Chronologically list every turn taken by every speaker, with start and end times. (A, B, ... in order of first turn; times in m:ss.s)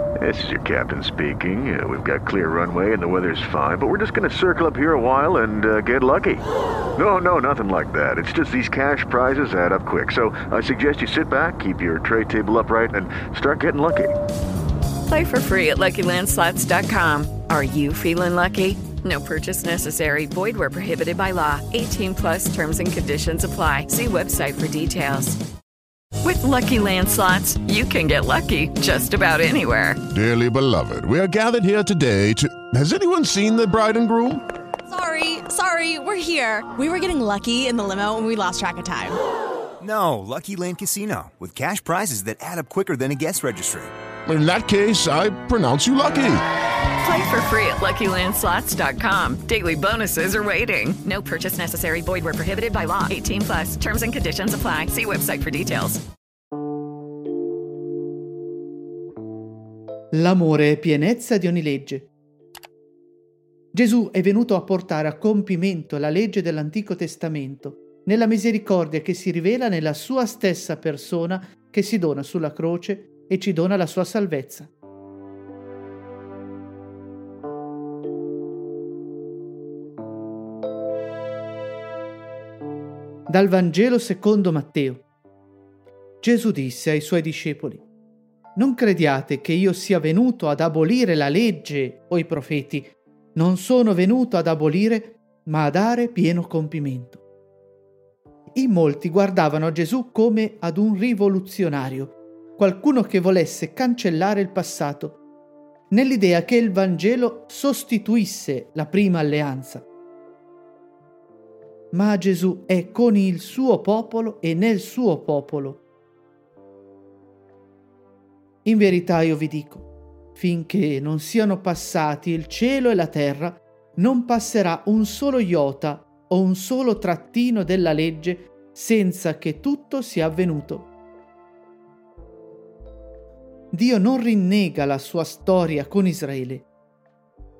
0:00.2-0:06.4 A
0:07.0-0:14.1 A
0:15.1-0:25.4 B
0:26.2-0:30.0 B
0:30.1-0:34.4 C
0:34.9-0:39.2 D
0:39.8-0:43.9 E
0:44.2-0:46.4 C
0:47.0-0:56.0 B
1:00.1-1:02.1 F
1:03.7-1:14.7 F
1:23.3-1:25.0 F
1:26.2-1:27.8 F
1:28.6-1:37.2 F
1:38.5-1:45.2 F
1:45.9-1:49.8 F
1:51.9-1:55.8 F
1:58.6-2:10.9 F
2:13.7-2:16.7 F